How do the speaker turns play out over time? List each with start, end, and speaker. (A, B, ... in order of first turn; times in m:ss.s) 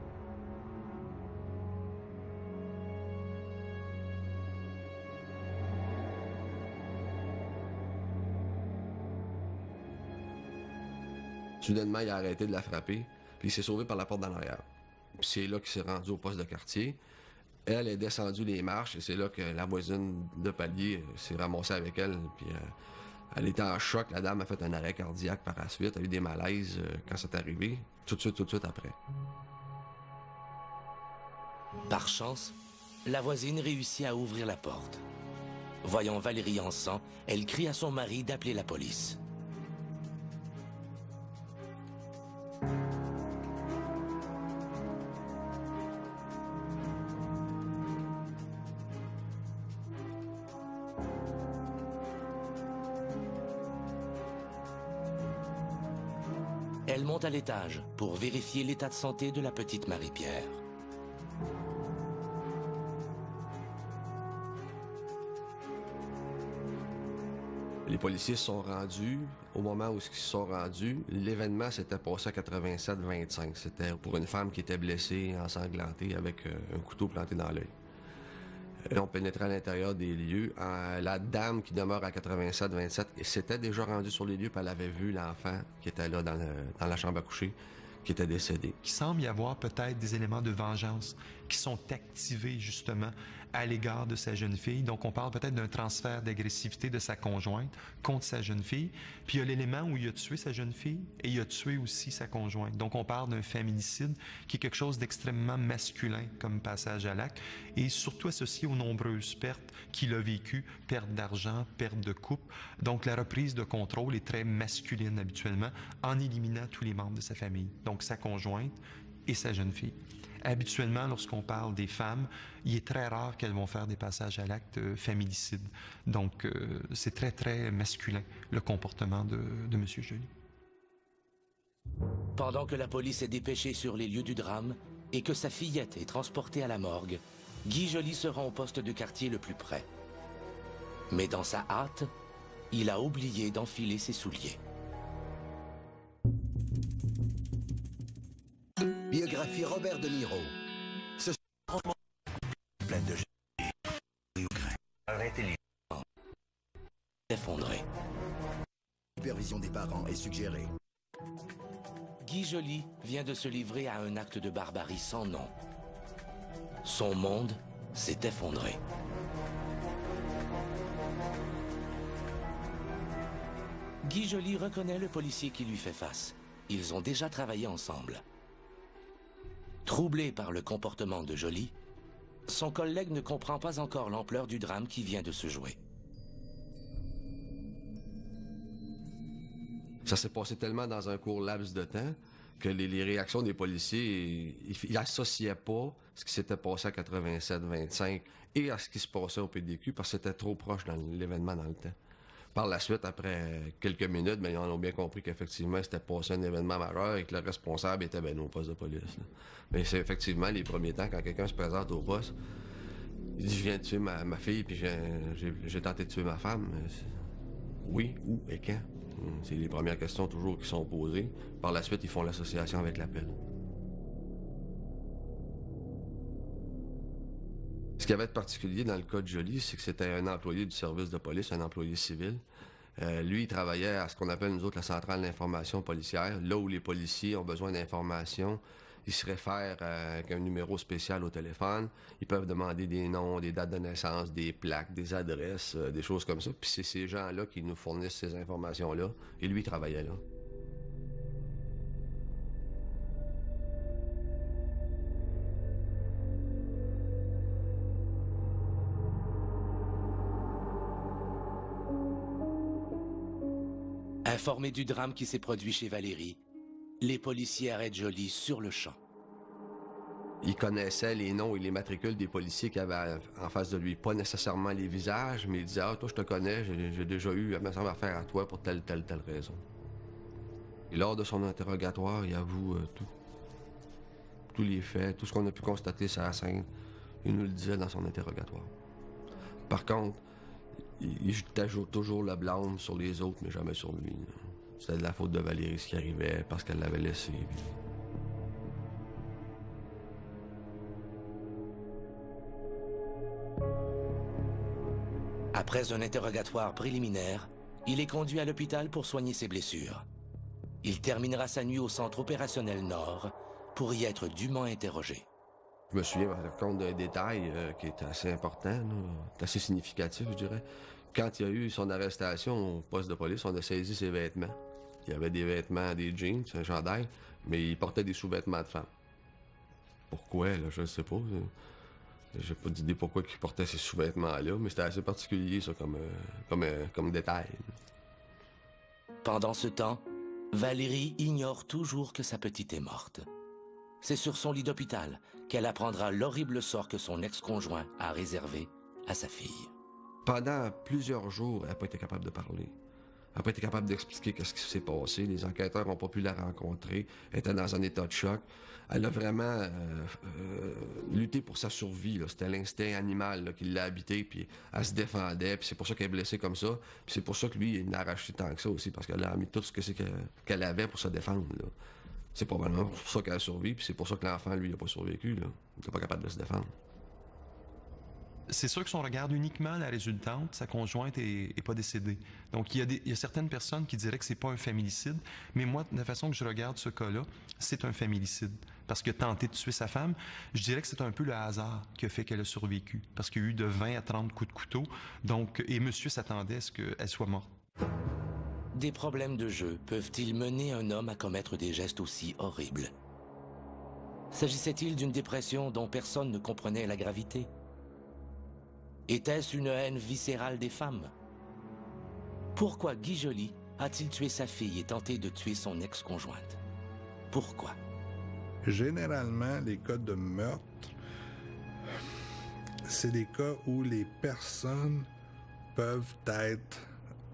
0:11.6-0:17.0 A
0:17.6-0:22.7 A
0:23.3-0:29.0 A
0:31.9-0:35.0 B
0:35.8-0:39.2 B
0:56.9-1:00.6 B
1:07.8-1:17.7 A
1:18.8-1:28.8 A
1:28.8-1:58.8 C
1:59.3-2:10.3 C
2:12.4-2:19.9 B
2:21.1-2:22.1 B
2:22.7-2:24.6 B
2:29.1-2:30.6 D
2:31.2-2:31.9 D
2:32.8-2:33.7 D
2:34.3-2:35.6 D
2:37.3-2:37.9 B
2:39.2-2:40.7 D
2:42.2-2:45.5 B
2:46.8-2:48.8 B
2:54.0-2:58.2 B
2:59.8-3:01.7 B
3:02.5-3:05.8 B
3:10.0-3:22.0 A
3:22.5-3:32.4 A
3:33.3-3:37.3 A
3:37.8-3:43.4 A
3:48.0-3:52.4 A
3:53.0-4:10.2 A
4:24.2-4:26.4 B
4:27.0-4:29.0 B
4:30.4-4:39.6 A
4:40.9-4:43.1 A
4:44.5-4:46.7 A
4:47.2-4:48.7 A
4:49.7-4:50.2 A
4:51.0-4:57.8 A
5:05.5-5:10.0 B
5:10.8-5:15.2 B
5:15.9-5:28.9 A
5:30.1-5:31.5 A
5:32.3-5:37.8 A
5:39.2-5:43.2 B
5:44.0-5:49.7 B
5:50.2-5:52.7 A
5:53.3-6:11.7 A
6:12.3-6:16.7 A
6:18.5-6:37.5 C
6:38.7-6:42.9 B
6:44.3-6:47.5 B
6:49.1-6:51.1 B
6:52.5-6:56.6 B
6:57.3-6:57.8 B
6:58.6-7:00.9 E
7:02.8-7:05.1 E
7:05.7-7:06.8 E